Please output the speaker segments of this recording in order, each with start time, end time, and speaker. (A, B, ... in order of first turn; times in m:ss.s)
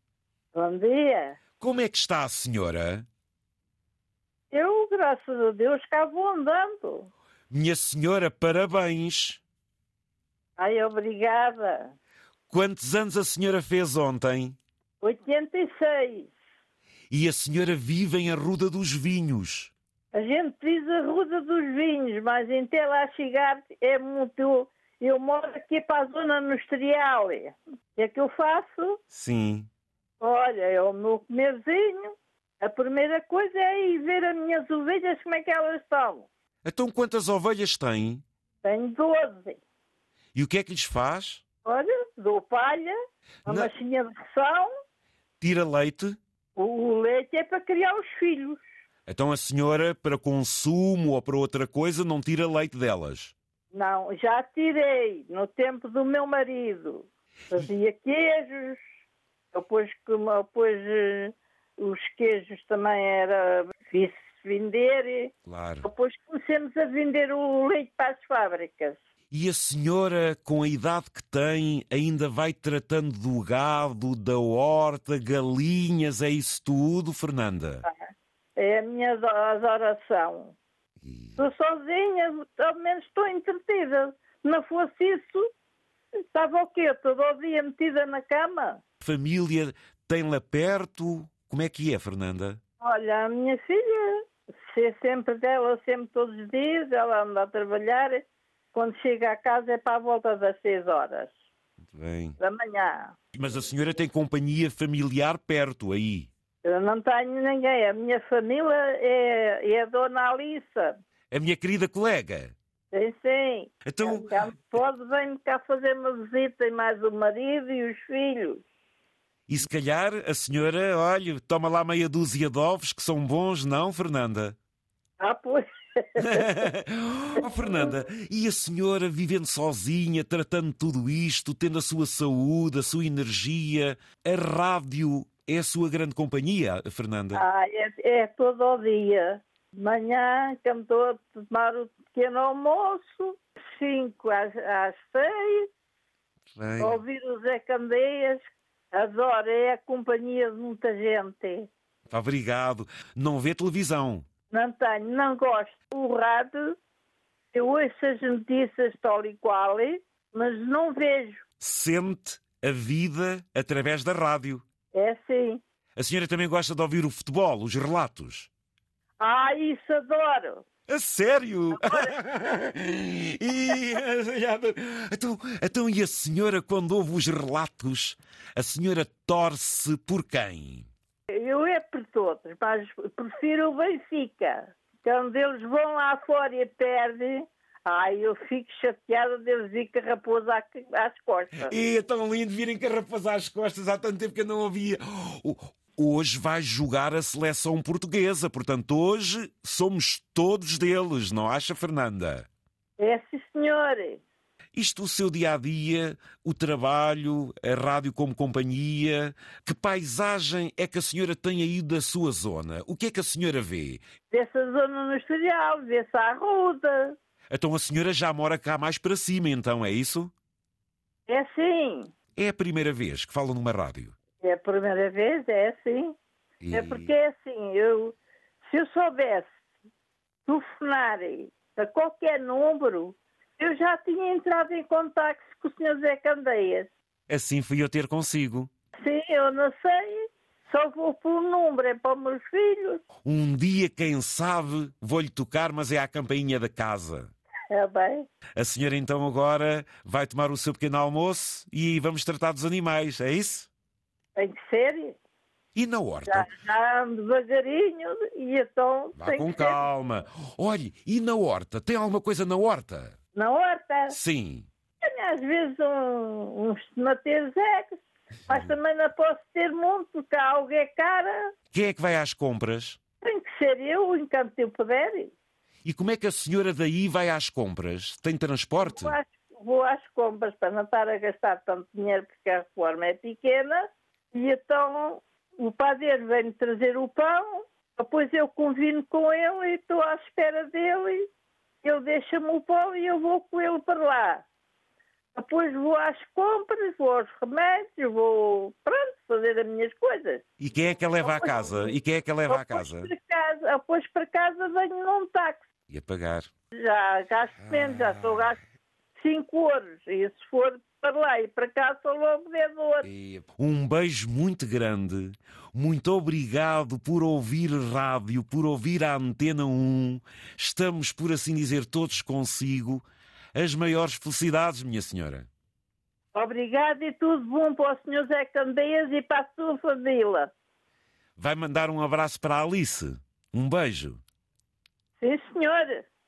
0:00.5-0:01.4 A
0:01.6-0:03.0 B
0:04.5-0:07.1 A
0:07.5-0:09.4 B
0:10.6-0:11.9 A
0:12.5-0:14.6 B
0:15.0-0:16.3 A
0:17.1-0:19.7 B
0:20.1-0:29.0 A
0:29.1-0:29.7 B
0:30.2-0:36.3 A
0:36.6-0:38.2 B
0:38.6-0:39.6 A
0:40.3-0:41.4 B
0:41.6-0:42.9 A
0:43.4-0:44.7 A
0:45.4-0:46.2 B
0:46.6-0:48.6 A
0:49.1-0:53.3 B
0:53.7-0:58.8 A
0:59.5-1:05.3 A
1:05.4-1:05.9 B
1:05.8-1:09.0 A
1:09.3-1:17.8 B
1:17.8-1:20.6 A
1:21.0-1:21.4 B
1:21.4-1:25.4 A
1:26.3-1:28.8 A
1:29.0-1:32.6 B
1:32.8-1:38.2 A
1:38.7-1:41.3 A
1:41.9-1:42.4 B
1:42.4-1:43.1 A
1:43.3-1:46.3 B
1:46.6-1:51.0 A
1:51.3-1:52.5 B
1:52.9-1:58.6 A
1:53.8-1:54.3 B
1:59.5-2:04.6 B
2:05.2-2:06.6 A
2:06.2-2:17.4 B
2:17.3-2:25.7 A
2:26.5-2:27.0 B
2:26.8-2:31.7 A
2:32.1-2:34.2 B
2:34.5-2:36.8 A
2:37.5-2:41.4 A
2:41.6-2:44.6 B
2:44.9-2:45.6 A
2:46.0-2:48.5 B
2:49.2-2:50.6 A
2:50.9-3:00.9 B
2:51.7-2:52.1 A
3:01.3-3:11.7 A
3:11.6-3:22.5 B
3:23.0-3:24.2 A
3:24.7-3:34.0 B
3:34.3-3:37.2 A
3:37.5-3:40.3 B
3:41.3-3:42.1 A
3:42.4-3:44.1 B
3:44.4-3:46.1 A
3:46.6-3:47.1 B
3:46.7-3:48.2 A
3:48.7-3:49.5 A
3:50.4-3:56.9 A
3:57.3-3:58.7 B
3:59.0-4:03.0 A
4:03.2-4:07.3 B
4:07.7-4:08.3 A
4:08.6-4:13.7 B
4:14.4-4:15.2 A
4:15.7-4:16.5 B
4:16.3-4:19.8 A
4:19.2-4:23.2 B
4:23.3-4:24.1 A
4:24.1-4:24.7 B
4:25.0-4:31.5 A
4:31.7-4:33.0 B
4:33.2-4:35.3 A
4:35.8-4:39.2 B
4:38.8-4:51.2 A
4:51.8-4:54.4 A
4:55.3-5:00.4 A
5:00.6-5:03.1 B
5:01.2-5:02.0 A
5:02.5-5:05.6 A
5:05.9-5:06.5 B
5:06.8-5:08.6 A
5:07.6-5:08.5 B
5:09.2-5:13.1 A
5:13.0-5:25.5 B
5:26.3-5:30.5 A
5:31.4-5:34.2 B
5:35.2-5:36.0 A